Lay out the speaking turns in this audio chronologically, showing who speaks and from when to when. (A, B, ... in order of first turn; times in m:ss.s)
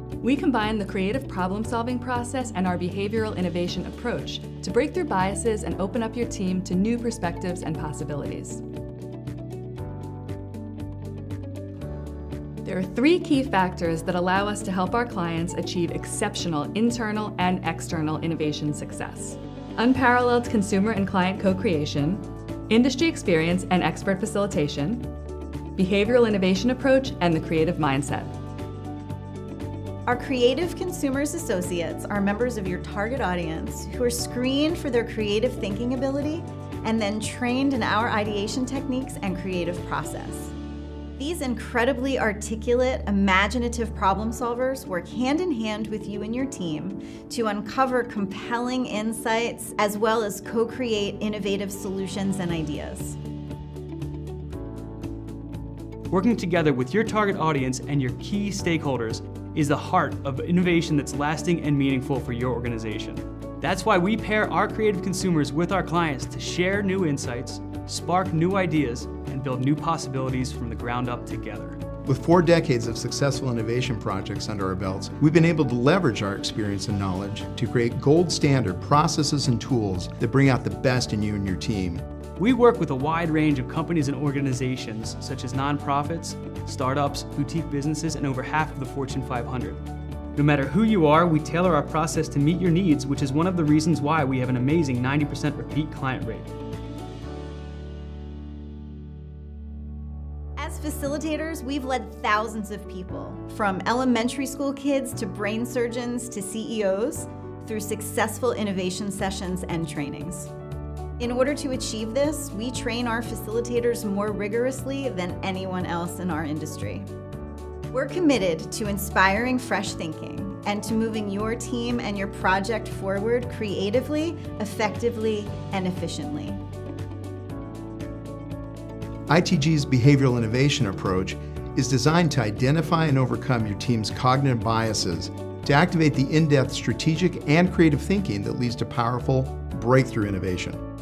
0:00.2-0:08.6 A
0:12.6-0:25.1 A
0:25.8-0:28.3 A
0:30.1-0:40.5 B
0:41.2-0:53.2 B
0:56.1-1:11.8 C
1:12.0-1:22.0 D
1:22.4-1:29.8 C
1:30.3-1:36.5 C
1:40.6-1:50.5 B
1:51.2-1:57.1 B
1:57.9-2:06.6 B
2:09.3-2:20.8 D